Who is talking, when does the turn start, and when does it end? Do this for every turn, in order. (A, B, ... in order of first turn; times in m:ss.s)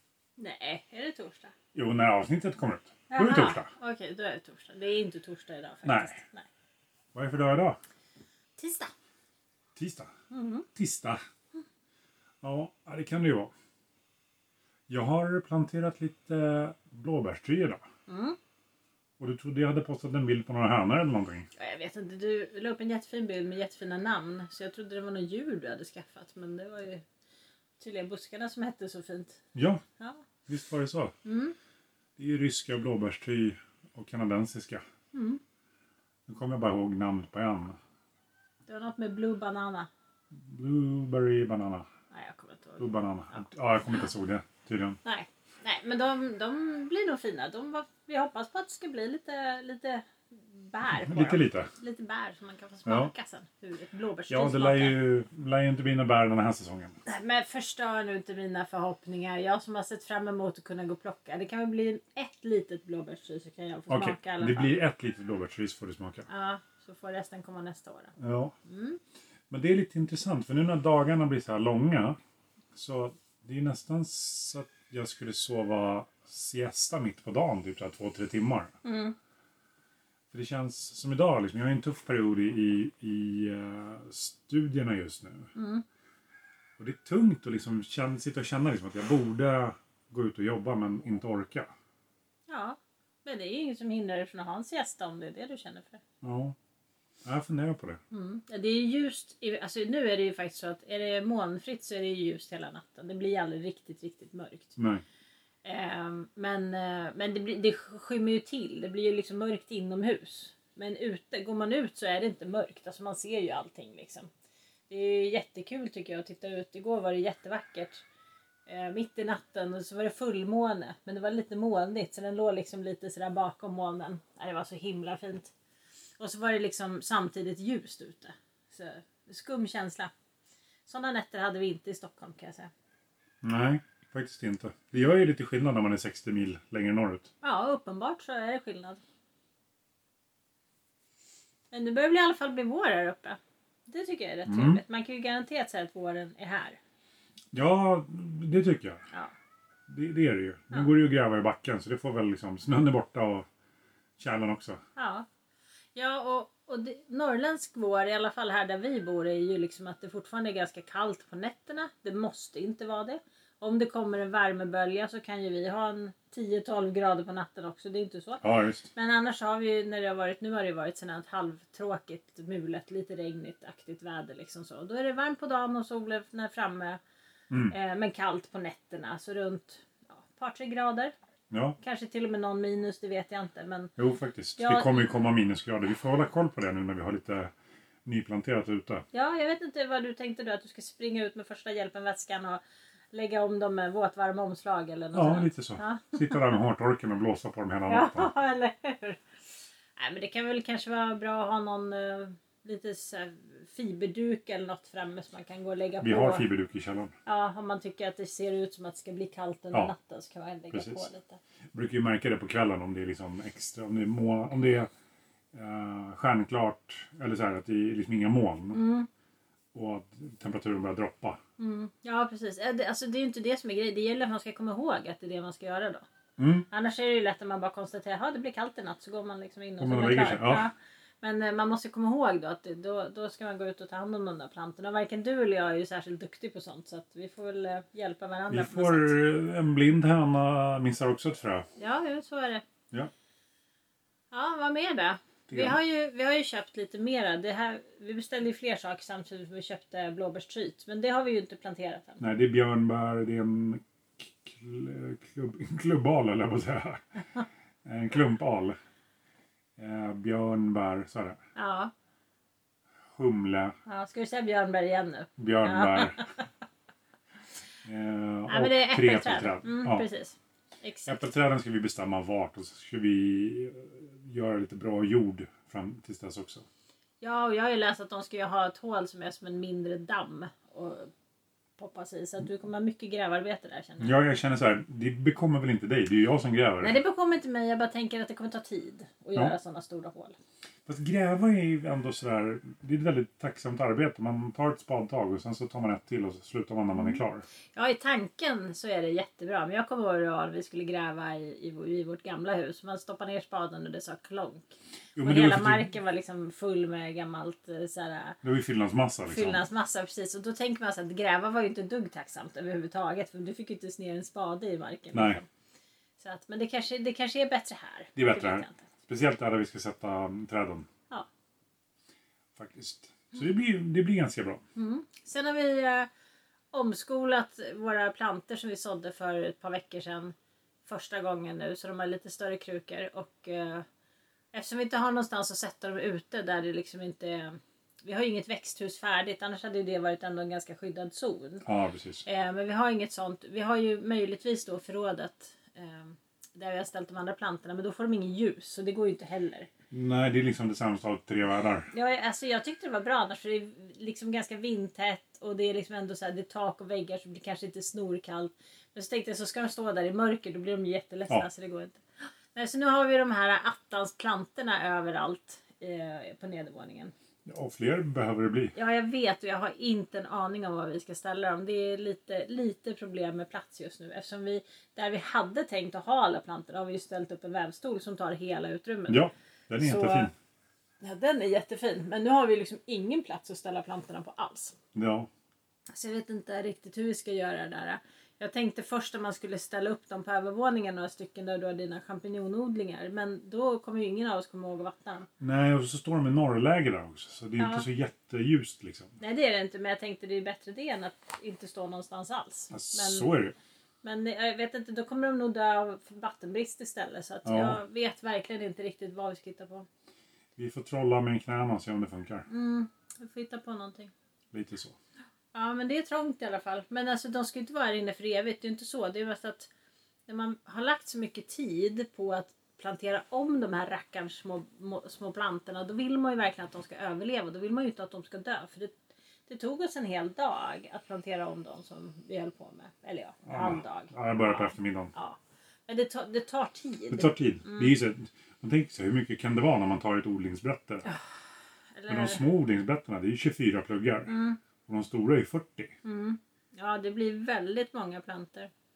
0:00.4-0:01.5 A
0:01.7-0:03.7 B
0:03.1-0:06.5 A
0:05.8-0:06.2 B
0:07.1-0:07.8 B
0:08.6-0:08.9 A
0:09.7-0:10.1 B
0:10.3-0:10.6 A
0:10.7-0:11.2 B
0:12.4-0:13.5 B
0:14.9-0:17.8 B
0:18.1-0:18.4 A
0:19.2-0:21.5 B
0:21.6-0:27.0 A
0:27.8-0:29.4 A
0:29.5-0:29.8 B
0:30.5-0:31.1 B
0:31.2-0:31.5 A
0:32.2-0:34.8 B
0:35.1-0:35.4 A
0:36.3-0:37.8 B
0:38.7-0:39.9 A
0:40.3-0:41.9 B
0:42.1-0:43.4 A
0:42.8-0:45.0 B
0:45.0-0:55.0 A
0:50.9-0:51.7 B
0:52.8-0:53.1 B
0:54.3-0:57.0 B
0:57.0-1:04.7 A
1:03.9-1:06.3 B
1:06.3-1:09.0 A
1:08.2-1:08.5 B
1:09.5-1:12.2 B
1:12.7-1:18.7 B
1:18.8-1:19.1 A
1:20.3-1:25.5 B
1:25.6-1:25.8 A
1:26.8-1:31.7 B
1:32.5-1:36.0 A
1:36.2-1:36.6 B
1:37.2-1:38.0 B
1:38.1-1:44.8 A
1:44.8-1:45.0 B
1:45.6-1:54.3 A
1:54.9-1:58.0 A
1:58.7-2:05.5 A
2:06.2-2:10.1 A
2:10.8-2:12.7 A
2:13.4-2:17.3 B
2:17.4-2:19.0 A
2:21.7-2:26.8 A
2:24.4-2:24.8 B
2:27.5-2:29.0 B
2:29.9-2:33.5 B
2:34.2-2:34.8 B
2:35.0-2:35.2 A
2:35.9-2:57.0 A
2:48.4-2:48.9 B
2:57.5-2:57.7 B
2:57.7-3:01.1 A
3:01.5-3:01.8 B
3:01.8-3:03.9 A
3:04.0-3:07.5 B
3:04.6-3:05.1 A
3:08.0-3:09.0 B
3:09.1-3:12.6 A
3:13.1-3:16.6 A
3:15.1-3:18.3 B
3:17.9-3:19.2 A
3:20.0-3:26.4 A
3:26.0-3:27.1 B
3:27.2-3:31.4 A
3:30.7-3:31.1 B
3:31.7-3:34.9 B
3:35.5-3:38.8 B
3:38.7-3:39.1 A
3:39.7-3:41.4 B
3:41.6-3:46.0 A
3:46.4-3:46.6 B
3:46.7-3:59.2 A
3:49.8-3:50.7 B
3:58.5-4:01.7 B
4:01.8-4:02.6 A
4:04.3-4:12.2 A
4:05.5-4:05.8 B
4:12.2-4:17.1 B
4:17.8-4:18.8 B
4:19.8-4:21.4 B
4:21.6-4:21.9 A
4:23.1-4:23.8 B
4:23.8-4:26.4 A
4:25.4-4:26.2 B
4:27.8-4:30.1 B
4:28.5-4:31.2 A
4:31.0-4:36.6 B
4:37.2-4:41.1 A
4:41.8-4:44.1 A
4:44.0-4:47.0 B
4:46.8-4:50.4 A
4:50.8-4:57.4 B
4:57.7-5:08.4 A
5:05.1-5:05.9 B
5:08.4-5:09.6 B
5:09.3-5:15.5 A
5:15.1-5:15.4 B
5:16.2-5:18.9 A
5:18.2-5:20.9 B
5:22.5-5:24.6 B
5:24.8-5:26.1 A
5:26.7-5:30.3 A
5:30.8-5:33.8 A
5:34.5-5:41.6 A
5:41.6-5:42.2 B
5:42.2-5:49.7 A
5:49.9-5:51.9 B
5:51.9-6:02.0 A
6:02.5-6:07.1 A
6:07.4-6:08.7 B
6:08.7-6:19.2 A
6:19.1-6:20.3 B
6:19.8-6:20.3 A
6:21.0-6:24.8 A
6:24.9-6:25.3 B
6:25.9-6:35.3 A
6:35.4-6:39.1 B
6:37.6-6:37.8 A
6:39.2-6:43.3 A
6:42.7-6:43.6 B
6:44.0-6:49.9 A
6:47.4-6:47.8 B
6:50.6-6:52.5 B
6:52.5-6:54.1 A
6:54.5-6:55.0 B
6:55.5-6:59.7 A
7:00.3-7:18.0 A
7:13.4-7:15.1 B
7:17.1-7:21.0 B
7:21.9-7:22.4 A
7:22.1-7:24.3 B
7:24.3-7:24.6 A
7:24.8-7:25.9 B
7:26.0-7:28.7 A